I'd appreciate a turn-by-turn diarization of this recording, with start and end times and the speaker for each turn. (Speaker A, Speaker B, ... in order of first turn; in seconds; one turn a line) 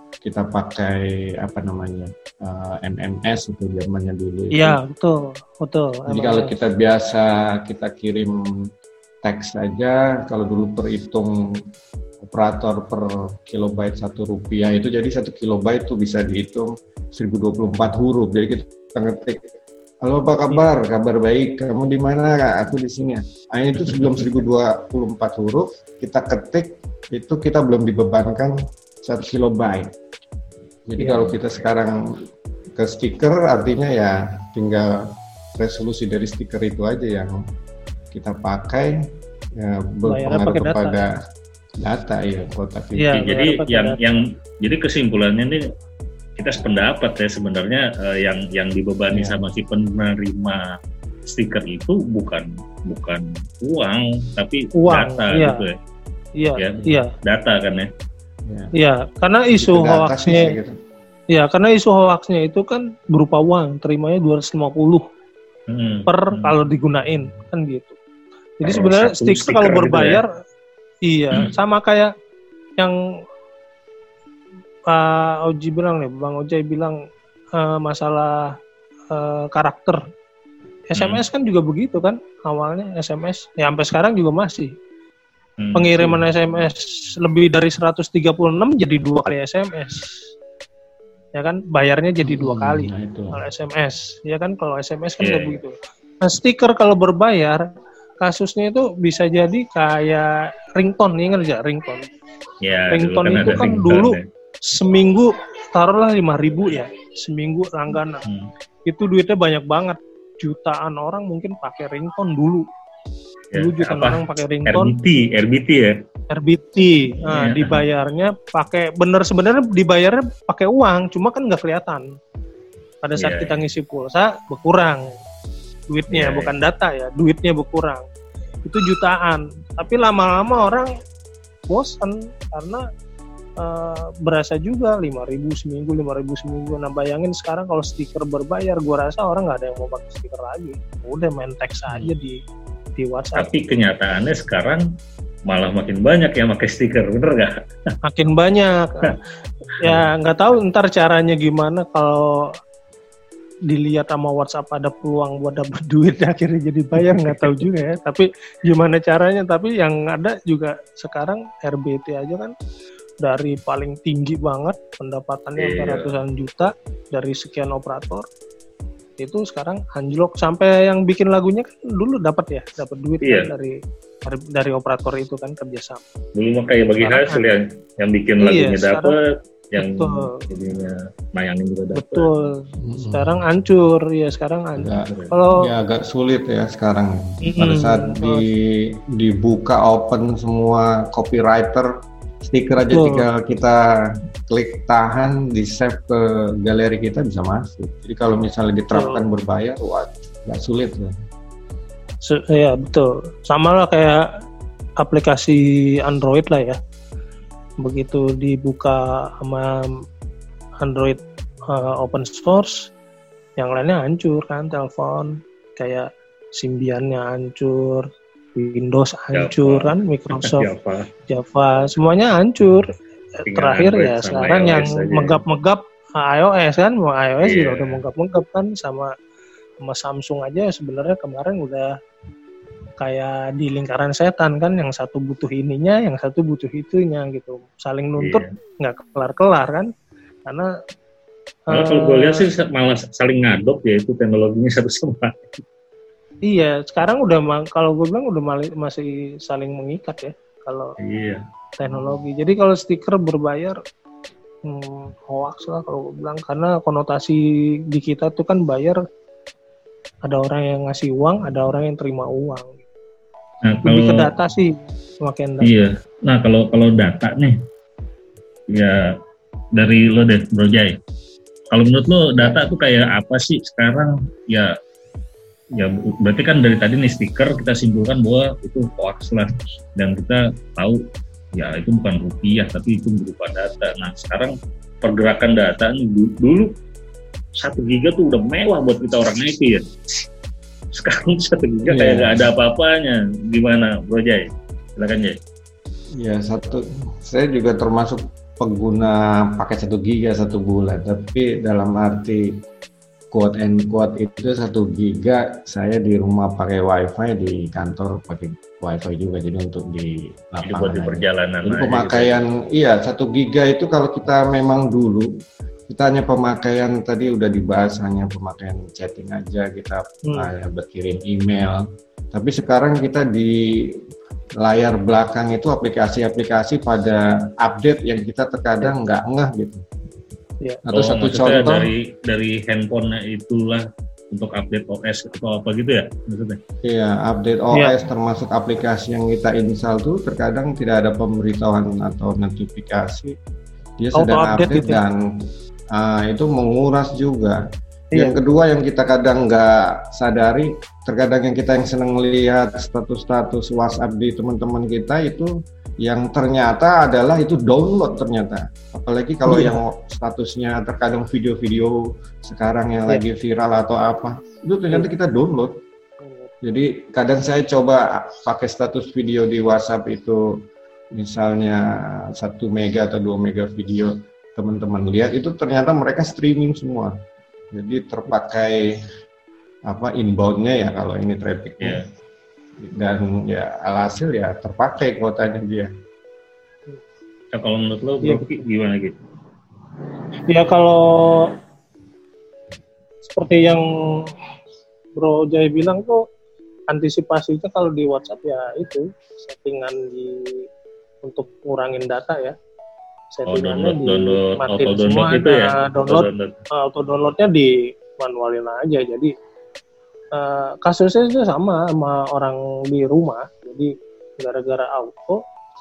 Speaker A: 0.2-4.8
Speaker B: 4.5-6.5
Speaker A: 6.1-8.3
Speaker A: 9.2-11.3
Speaker A: 12.2-19.4
Speaker A: 20.0-29.9
Speaker C: 23.9-24.2
Speaker A: 30.9-32.0
Speaker B: 31.0-31.3
Speaker A: 32.8-34.9
Speaker A: 35.6-37.4
Speaker A: 38.1-39.0
Speaker A: 39.6-41.1
Speaker B: 40.1-41.0
Speaker A: 41.8-43.1
Speaker B: 43.0-44.0
Speaker C: 43.1-45.6
Speaker C: 46.4-50.6
Speaker A: 49.1-49.4
Speaker C: 51.3-55.7
Speaker B: 54.8-55.6
Speaker B: 56.4-57.1
Speaker C: 56.5-57.9
Speaker B: 58.8-60.5
Speaker A: 59.5-60.7
Speaker B: 61.3-65.0
Speaker C: 65.7-66.5
Speaker B: 66.1-68.0
Speaker B: 68.6-70.3
Speaker C: 68.6-70.2
Speaker B: 71.1-72.1
Speaker B: 74.9-76.9
Speaker B: 77.6-78.4
Speaker B: 79.1-80.0
Speaker B: 80.9-84.7
Speaker C: 81.0-81.2
Speaker C: 85.6-86.1
Speaker B: 85.7-90.1
Speaker B: 91.3-97.6
Speaker A: 92.2-93.4
Speaker C: 95.2-95.6
Speaker B: 98.2-102.0
Speaker C: 102.6-104.2
Speaker B: 102.9-104.2
Speaker B: 104.7-108.2
Speaker B: 108.9-112.6
Speaker C: 113.5-115.9
Speaker B: 113.5-114.9
Speaker B: 116.3-122.0
Speaker C: 117.3-117.8
Speaker B: 123.0-125.1
Speaker C: 123.2-123.5
Speaker B: 125.9-128.0
Speaker C: 126.1-126.5
Speaker B: 128.7-130.9
Speaker B: 131.7-132.8
Speaker B: 133.6-142.4
Speaker B: 142.9-143.5
Speaker C: 143.3-144.8
Speaker C: 145.5-147.5
Speaker B: 148.0-149.2
Speaker B: 149.8-152.5
Speaker B: 153.7-162.5
Speaker C: 157.0-157.6
Speaker B: 163.2-168.2
Speaker C: 165.6-166.1
Speaker B: 169.2-173.7
Speaker C: 173.2-173.5
Speaker B: 174.2-176.0
Speaker C: 176.3-179.2
Speaker B: 177.0-177.4
Speaker B: 178.4-179.1
Speaker C: 179.7-182.3
Speaker B: 179.8-180.3
Speaker B: 181.9-185.6
Speaker A: 182.8-183.4
Speaker A: 184.7-191.9
Speaker C: 184.9-185.4
Speaker B: 187.4-188.4
Speaker A: 192.4-193.8
Speaker B: 192.9-193.2
Speaker A: 194.5-201.1
Speaker B: 198.9-199.2
Speaker B: 202.2-204.2
Speaker B: 205.0-206.8
Speaker B: 207.8-209.9
Speaker B: 210.8-211.2
Speaker B: 211.7-212.9
Speaker B: 213.6-220.7
Speaker C: 219.3-221.1
Speaker B: 221.3-222.8
Speaker B: 223.4-229.1
Speaker C: 223.4-225.4
Speaker C: 227.4-228.0
Speaker B: 229.8-231.9
Speaker B: 233.0-239.9
Speaker C: 238.2-238.5
Speaker B: 241.7-242.4
Speaker C: 241.7-245.5
Speaker B: 246.4-250.9
Speaker C: 251.0-251.4
Speaker B: 251.8-253.8
Speaker B: 254.7-257.4
Speaker B: 257.9-259.0
Speaker B: 260.2-262.8
Speaker C: 263.6-264.3
Speaker B: 263.8-265.8
Speaker C: 265.6-267.6
Speaker C: 268.7-269.1
Speaker C: 269.8-270.9
Speaker C: 271.7-274.7
Speaker C: 275.8-281.0
Speaker C: 281.5-286.7
Speaker C: 287.6-289.8
Speaker C: 290.9-295.4
Speaker A: 291.9-292.5
Speaker A: 296.2-302.5
Speaker A: 303.3-315.3
Speaker C: 310.6-312.4
Speaker A: 315.9-323.9
Speaker A: 324.6-329.8
Speaker A: 330.8-331.9
Speaker C: 330.9-336.6
Speaker A: 336.8-343.3
Speaker A: 344.0-345.2
Speaker B: 344.1-345.0
Speaker A: 345.9-347.6
Speaker A: 348.1-355.5
Speaker A: 356.0-365.7
Speaker B: 359.4-359.8
Speaker B: 366.2-366.5
Speaker A: 366.6-370.5
Speaker A: 371.1-377.1
Speaker A: 377.7-378.8
Speaker A: 379.9-382.0
Speaker A: 382.8-385.9
Speaker C: 387.5-389.2
Speaker B: 390.5-391.5
Speaker B: 393.2-394.3
Speaker B: 395.1-396.2
Speaker B: 396.9-400.6
Speaker B: 401.2-402.5
Speaker B: 403.3-406.3
Speaker C: 403.5-406.5
Speaker B: 406.8-409.3
Speaker B: 410.3-415.4